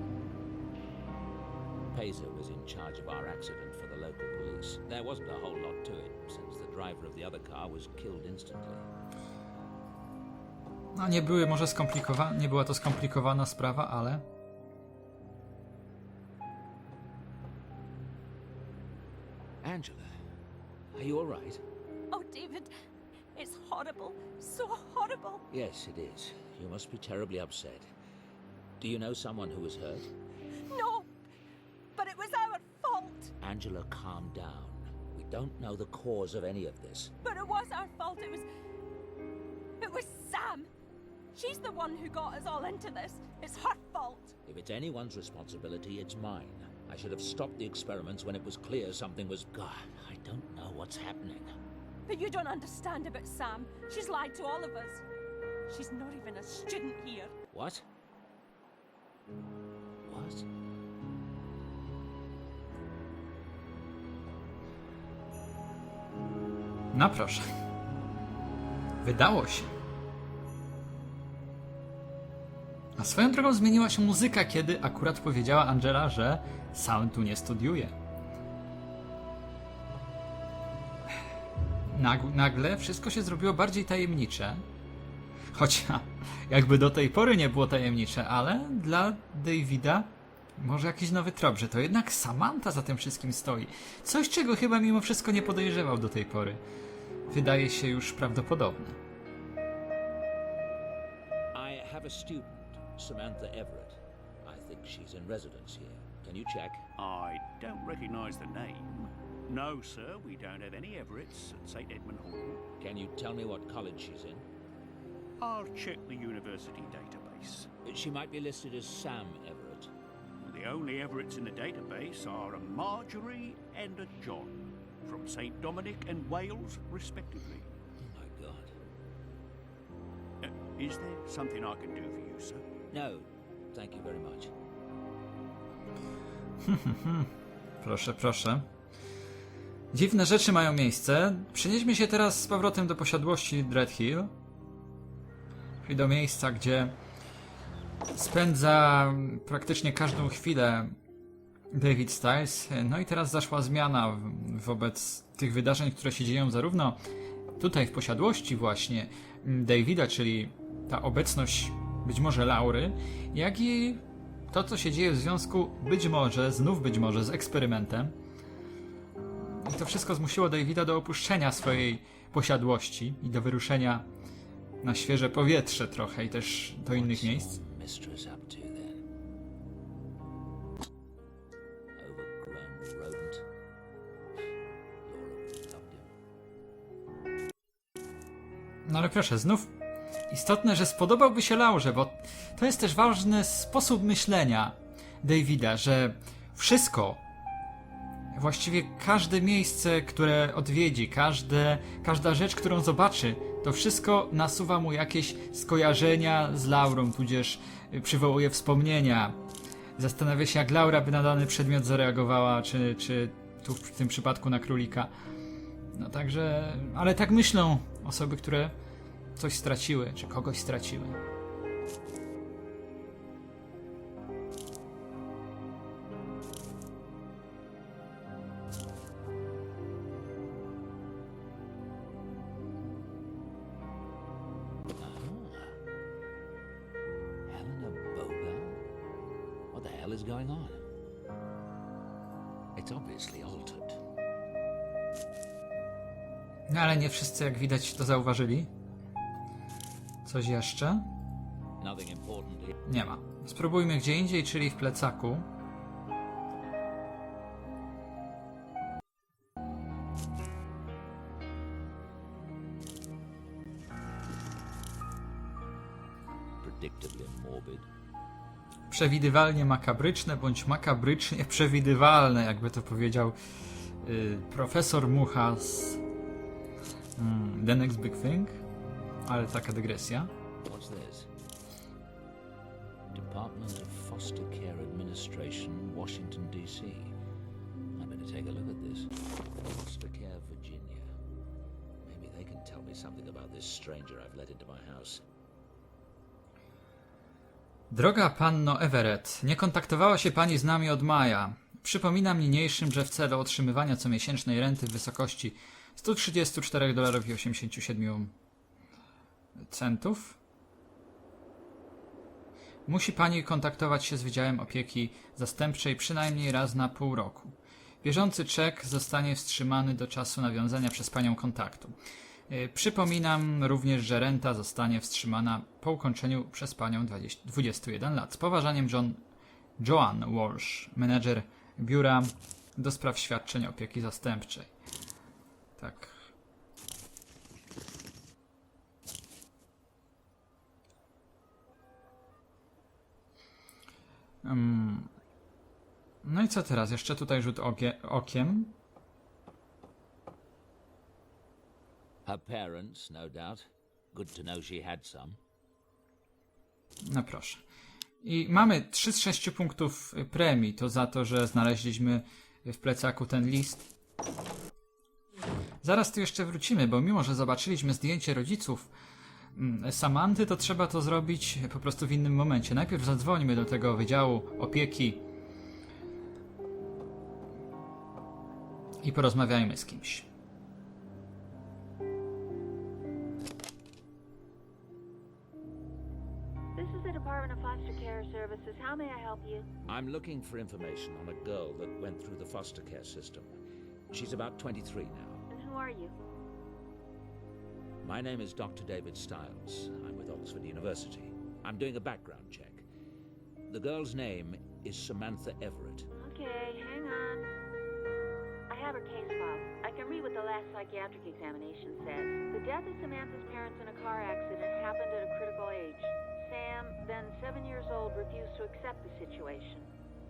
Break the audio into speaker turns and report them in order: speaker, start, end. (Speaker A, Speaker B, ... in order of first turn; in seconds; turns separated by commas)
Speaker A: 1.9-8.9, Speaker B: 10.9-14.2, Speaker A: 19.6-20.1, Speaker A: 20.9-21.6, Speaker C: 22.1-22.7, Speaker C: 23.3-25.4, Speaker A: 25.5-27.9, Speaker A: 28.8-30.1, Speaker C: 30.7-31.1, Speaker C: 31.9-33.3, Speaker A: 33.4-37.2, Speaker C: 37.2-38.5, Speaker C: 39.8-40.7, Speaker C: 41.3-44.4, Speaker A: 44.4-51.5, Speaker C: 52.1-55.0, Speaker C: 55.7-57.3, Speaker A: 57.5-57.8, Speaker A: 60.0-60.5, Speaker B: 66.9-67.5, Speaker B: 69.0-69.7, Speaker B: 73.0-77.9, Speaker B: 81.9-84.6, Speaker B: 85.5-96.6, Speaker B: 97.3-99.0, Speaker A: 101.5-106.8, Speaker D: 107.0-112.7, Speaker A: 112.8-114.5, Speaker D: 115.4-117.7, Speaker A: 117.8-119.9, Speaker D: 120.4-127.7, Speaker A: 128.0-128.7, Speaker D: 130.4-132.6, Speaker A: 132.9-134.5, Speaker B: 136.6-137.3, Speaker B: 137.8-138.7, Speaker B: 139.9-144.3, Speaker B: 145.8-146.9, Speaker B: 148.1-150.9, Speaker B: 151.7-157.0, Speaker B: 157.6-168.1, Speaker B: 169.5-174.1, Speaker B: 174.8-177.6, Speaker A: 176.9-179.0, Speaker A: 182.0-183.4, Speaker A: 185.0-186.1, Speaker B: 188.8-189.7, Speaker B: 190.3-197.2, Speaker B: 198.3-209.4, Speaker B: 210.0-215.1, Speaker B: 215.9-218.7, Speaker B: 219.3-221.2, Speaker A: 235.0-235.8, Speaker A: 237.5-238.8, Speaker A: 239.7-240.8, Speaker A: 242.8-244.0, Speaker B: 246.7-248.7, Speaker B: 250.2-251.0, Speaker A: 251.8-252.7, Speaker B: 252.9-255.5, Speaker A: 266.6-267.9, Speaker B: 268.9-273.4, Speaker B: 274.0-276.0, Speaker B: 277.2-278.6, Speaker B: 279.3-280.3, Speaker A: 280.6-281.3, Speaker A: 283.1-287.1, Speaker A: 287.9-291.1, Speaker A: 292.0-295.2, Speaker B: 297.9-308.3, Speaker B: 309.6-310.4, Speaker B: 312.9-321.9, Speaker B: 322.5-329.2, Speaker B: 329.8-334.7, Speaker B: 335.8-336.1, Speaker B: 344.4-345.1, Speaker B: 346.2-348.7, Speaker A: 352.2-355.4, Speaker B: 357.0-357.6, Speaker B: 358.2-363.9, Speaker B: 365.8-368.9, Speaker B: 369.6-375.2, Speaker B: 379.0-380.3, Speaker E: 386.7-389.7, Speaker A: 389.9-393.5, Speaker A: 394.1-395.4, Speaker E: 395.5-396.1, Speaker A: 398.0-402.8, Speaker A: 403.7-406.1, Speaker E: 406.2-407.5, Speaker E: 408.7-419.9